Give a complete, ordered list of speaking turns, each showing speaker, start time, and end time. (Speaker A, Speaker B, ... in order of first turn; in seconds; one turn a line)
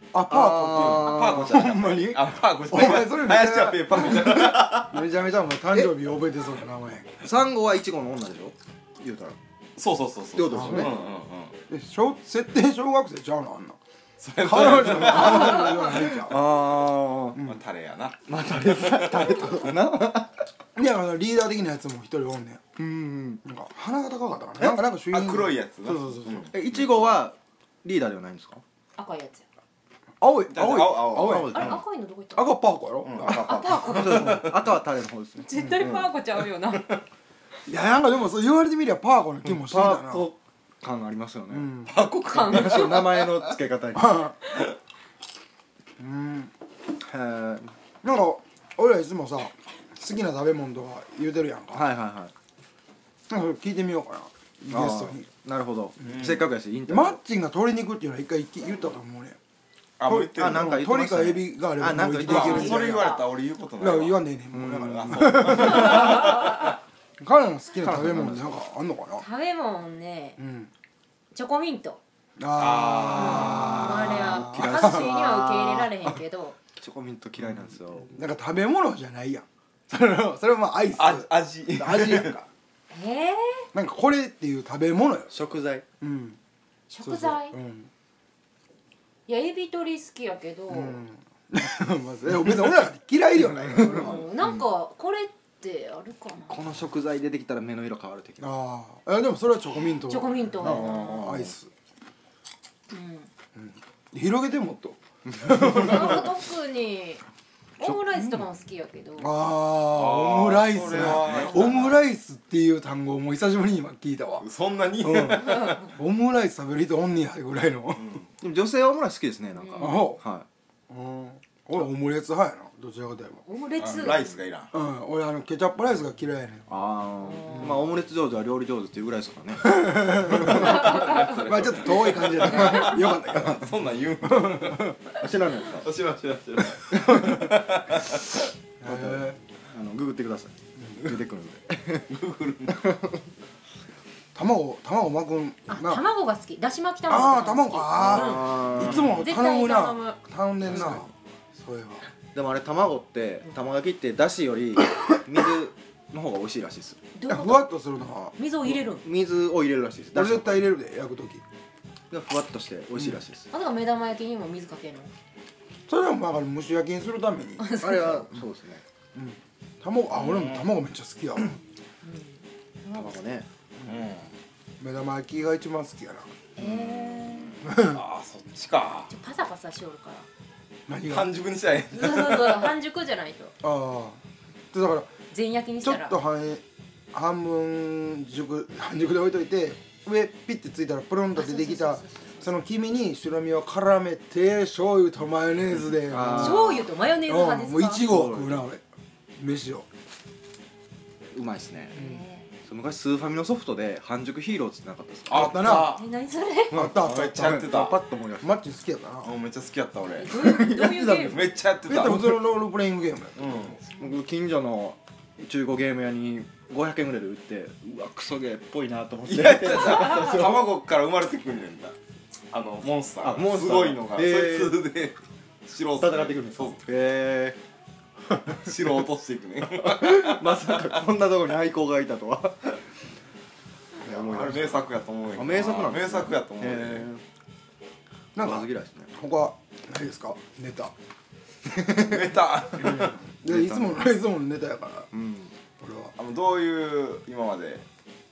Speaker A: 0.1-7.1
Speaker B: 0.3-2.1
Speaker C: 0.7-5.0
Speaker B: 7.2-9.4
Speaker C: 9.8-11.5
Speaker B: 10.3-11.1
Speaker A: 10.5-10.9
Speaker A: 11.7-13.8
Speaker C: 14.2-15.7
Speaker A: 14.4-16.5
Speaker B: 14.9-17.4
Speaker A: 17.3-17.6
Speaker C: 17.4-19.6
Speaker B: 18.3-20.3
Speaker A: 20.8-22.6
Speaker B: 22.8-23.4
Speaker A: 23.4-26.5
Speaker C: 25.1-27.2
Speaker B: 26.5-28.6
Speaker D: 29.0-29.4
Speaker A: 30.2-31.8
Speaker C: 30.5-31.8
Speaker B: 31.1-31.8
Speaker D: 31.5-32.5
Speaker A: 32.3-34.4
Speaker C: 33.0-34.6
Speaker D: 33.2-34.5
Speaker B: 33.7-36.1
Speaker D: 35.5-37.0
Speaker A: 37.7-40.3
Speaker B: 39.4-41.7
Speaker A: 41.5-41.9
Speaker C: 41.9-43.3
Speaker D: 42.2-43.3
Speaker B: 42.3-44.3
Speaker A: 43.9-44.3
Speaker A: 46.0-46.5
Speaker B: 47.0-47.7
Speaker A: 48.0-51.9
Speaker B: 51.7-52.3
Speaker A: 53.3-55.3
Speaker B: 54.7-57.2
Speaker C: 56.0-56.5
Speaker A: 56.9-59.4
Speaker C: 60.0-60.7
Speaker A: 60.1-63.1
Speaker B: 60.1-63.1
Speaker C: 62.2-64.2
Speaker D: 62.3-63.2
Speaker A: 63.8-66.3
Speaker B: 64.5-66.1
Speaker C: 64.7-66.6
Speaker A: 67.2-69.2
Speaker B: 67.8-68.6
Speaker D: 69.2-70.4
Speaker A: 70.4-70.7
Speaker D: 71.3-72.0
Speaker A: 72.4-75.1
Speaker C: 72.6-74.2
Speaker D: 73.1-76.6
Speaker B: 73.6-76.2
Speaker B: 76.8-78.1
Speaker A: 78.1-82.5
Speaker C: 81.0-82.3
Speaker D: 82.9-83.7
Speaker A: 83.7-85.3
Speaker B: 85.3-85.8
Speaker A: 86.0-86.4
Speaker D: 86.9-87.5
Speaker A: 87.0-87.9
Speaker D: 89.3-91.0
Speaker A: 90.7-94.2
Speaker B: 93.6-94.6
Speaker D: 93.7-96.6
Speaker B: 96.5-98.5
Speaker A: 98.4-101.7
Speaker D: 100.1-101.4
Speaker B: 100.6-101.5
Speaker D: 102.9-103.3
Speaker A: 103.5-106.3
Speaker D: 105.5-107.2
Speaker D: 107.8-109.3
Speaker A: 109.2-114.5
Speaker C: 109.9-111.9
Speaker B: 110.9-111.5
Speaker D: 111.2-111.7
Speaker C: 114.4-115.9
Speaker A: 115.0-118.2
Speaker C: 118.0-118.2
Speaker B: 118.4-120.5
Speaker D: 119.6-120.0
Speaker A: 119.8-120.2
Speaker A: 120.9-123.4
Speaker D: 123.5-124.3
Speaker C: 123.8-124.7
Speaker A: 124.7-126.7
Speaker B: 126.7-130.8
Speaker D: 127.2-127.8
Speaker A: 129.6-135.0
Speaker C: 130.3-134.9
Speaker D: 130.5-131.4
Speaker B: 135.2-135.9
Speaker C: 135.6-138.4
Speaker A: 137.1-137.5
Speaker A: 138.8-139.4
Speaker B: 138.8-142.1
Speaker C: 142.0-142.9
Speaker B: 142.7-143.2
Speaker A: 144.3-146.0
Speaker D: 145.7-150.2
Speaker A: 147.1-152.0
Speaker B: 148.0-149.2
Speaker B: 150.7-151.0
Speaker B: 152.3-157.0
Speaker D: 157.1-157.7
Speaker A: 157.3-158.3
Speaker D: 158.4-159.0
Speaker B: 158.7-160.7
Speaker A: 160.1-161.4
Speaker B: 162.1-163.5
Speaker D: 163.5-165.1
Speaker A: 165.9-167.8
Speaker D: 167.6-168.3
Speaker B: 167.8-168.8
Speaker A: 169.1-171.6
Speaker C: 170.1-170.7
Speaker D: 172.0-173.2
Speaker B: 172.9-173.5
Speaker C: 173.8-174.3
Speaker A: 174.8-176.3
Speaker D: 176.6-177.6
Speaker C: 176.6-179.1
Speaker A: 177.6-178.0
Speaker D: 179.1-180.3
Speaker A: 180.9-181.3
Speaker C: 181.1-182.7
Speaker D: 181.9-183.5
Speaker A: 183.6-184.2
Speaker A: 184.7-185.1
Speaker D: 185.3-186.2
Speaker A: 185.8-196.7
Speaker D: 191.3-192.5
Speaker B: 196.0-196.9
Speaker D: 196.3-198.1
Speaker A: 197.3-198.8
Speaker B: 198.1-198.7
Speaker A: 199.4-199.8
Speaker B: 201.3-201.9
Speaker D: 201.9-202.5
Speaker A: 201.9-202.2
Speaker B: 202.6-205.7
Speaker C: 205.3-206.0
Speaker A: 205.3-206.0
Speaker D: 205.7-206.9
Speaker A: 206.7-207.8
Speaker B: 206.7-208.6
Speaker C: 206.9-208.0
Speaker A: 208.4-209.3
Speaker C: 209.2-210.3
Speaker D: 210.2-211.5
Speaker B: 210.3-211.4
Speaker C: 211.2-212.5
Speaker A: 211.8-213.7
Speaker C: 213.3-213.8
Speaker B: 213.9-220.7
Speaker C: 219.2-221.9
Speaker C: 222.5-226.8
Speaker B: 223.2-224.8
Speaker B: 226.0-227.6
Speaker C: 228.5-231.0
Speaker B: 229.8-232.8
Speaker B: 234.0-237.2
Speaker C: 234.0-237.1
Speaker A: 238.3-240.9
Speaker B: 238.4-239.1
Speaker C: 241.9-243.2
Speaker A: 242.8-245.1
Speaker B: 243.4-244.1
Speaker B: 245.1-245.5
Speaker A: 245.8-246.1
Speaker C: 246.2-247.8